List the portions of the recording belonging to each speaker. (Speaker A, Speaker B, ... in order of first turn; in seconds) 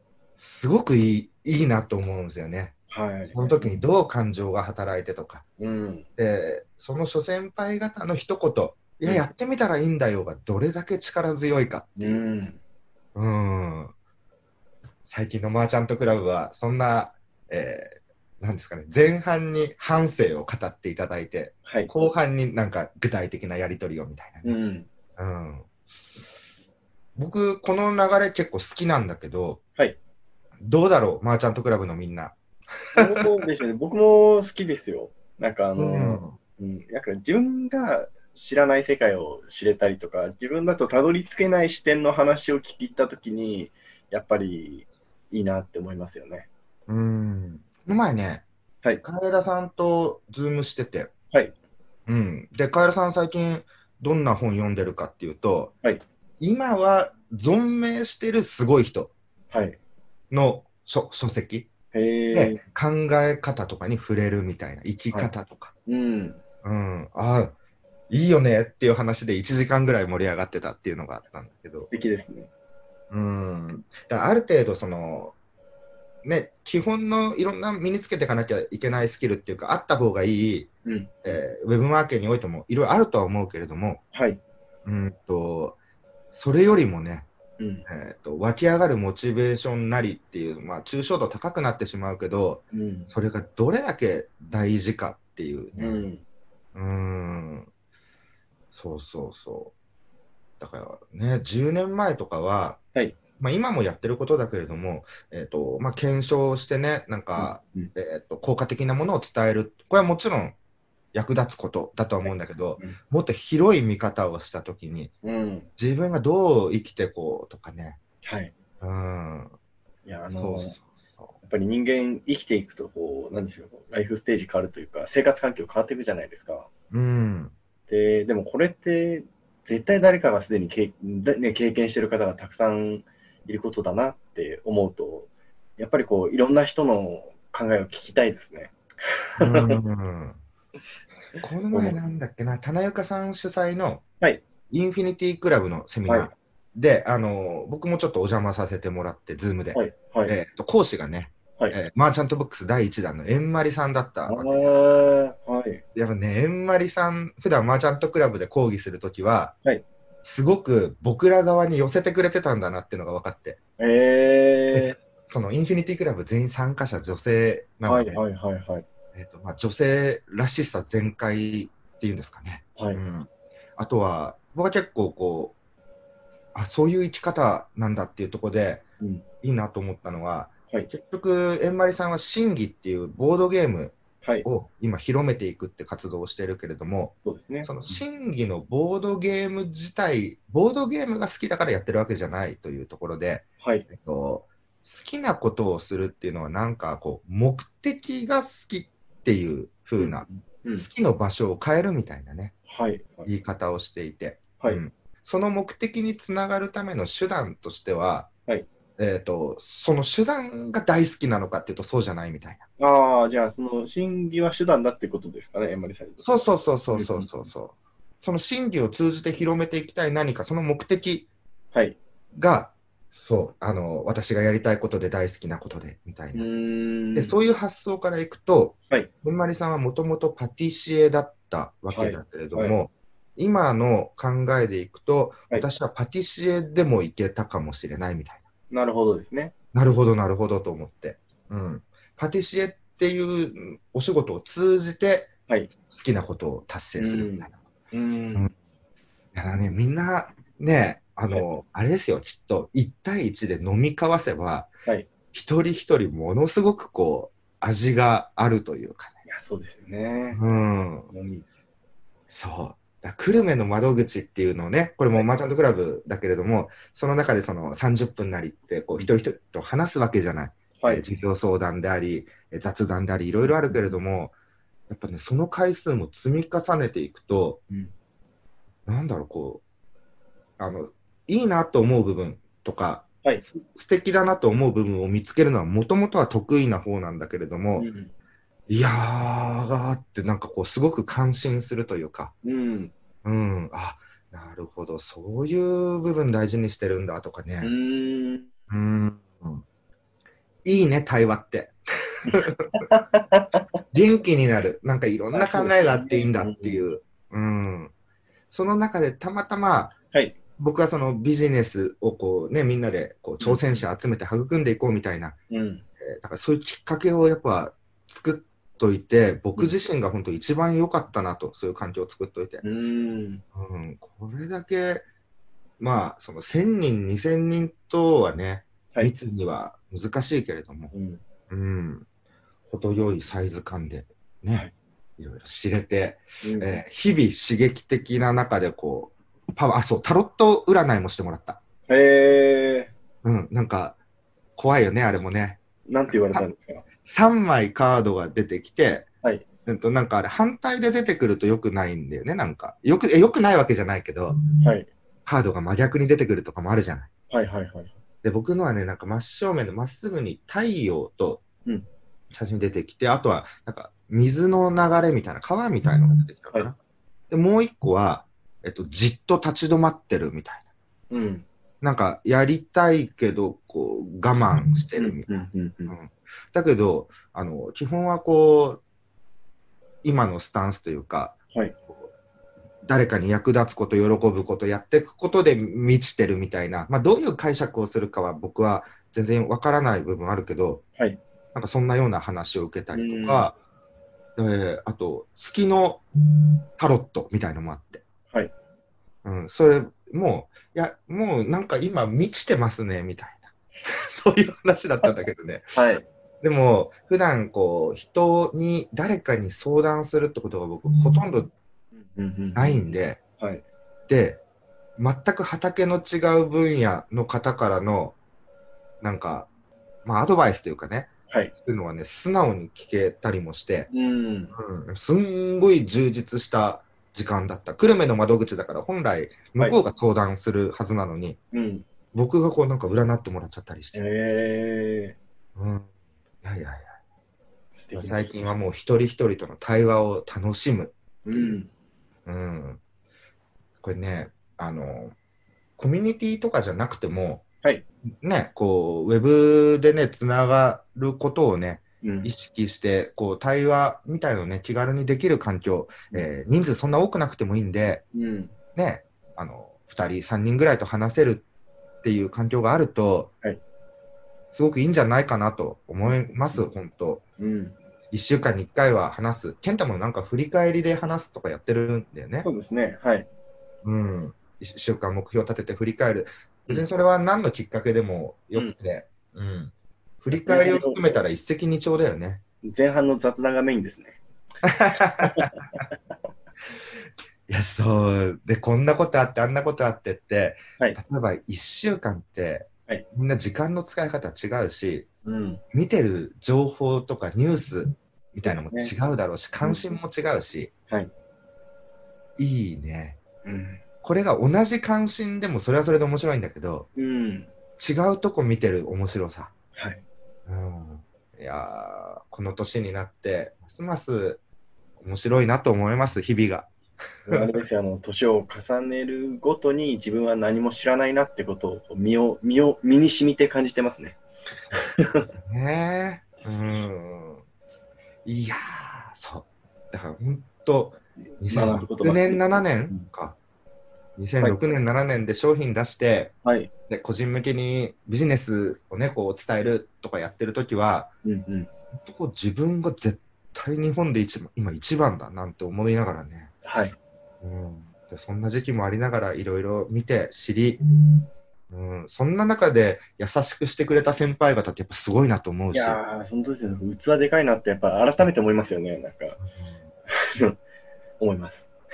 Speaker A: 0.4-2.8, 3.3-5.4, 6.2-12.2, 13.1-13.9, 15.0-24.6, 25.2-25.7, 27.1-29.6, 30.6-32.4, 32.9-33.3, 35.8-36.4, 46.9-48.4, 49.0-51.1, 52.1-55.7, 56.4-59.1, 60.3-61.7, 62.3-65.7, 66.6-67.5, 68.1-71.9, 73.1-75.3, 76.2-80.7, 81.2-84.0, 84.8-85.8, 86.3-87.3, 87.9-96.0, 96.7-97.7, 98.7-99.7, 100.6-102.8, 103.4-110.5, 111.1-115.1, 115.8-118.0, 118.8-119.5, 120.3-121.3, 126.9-127.5, 139.4-140.4, 141.4-144.0, 144.7-154.8, 155.9-159.5, 160.2-163.6, 164.7-168.2, 169.1-175.5, 176.5-178.8, 179.4-202.5, 203.2-208.3, 209.0-212.6, 216.2-221.3, 222.3-226.5, 227.1-238.4, 239.7-247.6, 249.3-254.7, 255.3-259.1, 260.3-261.1, 262.3-274.3, 274.9-277.6, 278.9-279.6, 280.6-287.9, 288.7-292.3, 293.2-297.7, 298.7-299.6, 300.6-302.8, 303.9-307.9, 308.5-309.9, 310.6-315.4, 316.0-322.6, 323.5-325.0, 325.8-330.9, 331.5-332.1, 332.7-334.7, 335.2-341.6, 343.2-344.0, 344.6-346.4, 347.0-349.1, 349.6-354.4, 355.2-357.1, 358.2-361.4, 362.3-366.8, 367.3-370.6, 371.8-378.8, 380.0-382.1, 382.8-390.8, 391.5-393.6, 394.4-396.1, 396.8-398.0, 399.2-405.7, 406.4-411.5, 412.5-413.2, 414.1-414.4, 415.0-418.1, 419.0-419.5, 420.0-423.9, 424.5-431.4, 432.1-434.0, 435.6-435.9, 436.4-436.9, 437.9-441.6, 442.2-442.8, 443.8-445.1, 445.8-447.4, 448.2-458.0, 458.8-461.4, 462.0-463.3, 464.5-467.2, 468.1-472.5, 473.8-482.4, 484.6-485.5, 487.5-495.1, 495.7-500.7, 502.4-503.2, 504.0-506.9, 507.8-509.5, 510.5-514.4, 515.0-516.7, 517.2-517.6, 524.5-527.4, 528.2-533.4, 534.2-536.3, 536.9-541.1, 541.9-546.5, 547.4-550.8, 551.7-556.0, 559.5-559.8
Speaker B: 2.9-3.6, 5.6-6.1, 12.0-12.6, 24.4-24.9, 32.9-46.5, 59.5-59.8, 61.9-62.6, 65.9-66.4, 71.9-72.5, 80.8-81.1, 84.1-84.4, 87.6-87.8, 92.7-93.1, 95.8-96.2, 107.4-107.9, 112.2-113.0, 115.2-115.7, 118.2-118.5, 120.0-120.8, 121.4-126.7, 127.9-138.7, 139.4-139.8, 149.7-150.3, 154.3-155.8, 163.8-165.0, 167.8-168.8, 172.8-173.0, 187.2-188.0, 193.6-193.9, 200.0-200.9, 202.7-203.3, 212.8-216.4, 216.9-217.3, 221.7-222.0, 226.3-227.3, 231.9-232.8, 238.7-239.5, 247.0-248.5, 259.2-260.4, 261.1-261.4, 270.8-271.0, 273.7-273.9, 287.8-288.1, 292.4-292.9, 297.6-298.5, 302.2-303.6, 305.3-306.8, 313.4-313.8, 315.5-315.8, 322.6-323.4, 330.9-331.2, 336.4-336.8, 341.9-342.9, 345.9-346.8, 354.6-354.9, 357.3-357.9, 371.1-371.4, 374.9-375.9, 392.9-393.5, 405.7-406.1, 412.1-412.9, 413.4-413.6, 423.9-424.5, 431.5-431.9, 433.9-435.1, 437.8-438.5, 441.2-441.7, 452.0-452.3, 458.1-458.5, 467.4-467.8, 472.4-473.3, 480.3-481.2, 482.6-484.2, 485.2-485.6, 495.2-495.6, 498.4-498.9, 503.4-503.8, 506.9-507.5, 509.7-510.0, 517.3-524.2, 524.7-525.3, 531.5-533.1, 536.4-536.7, 541.2-541.7, 546.6-547.0, 555.7-559.4, 560.1-560.6, 561.2-561.7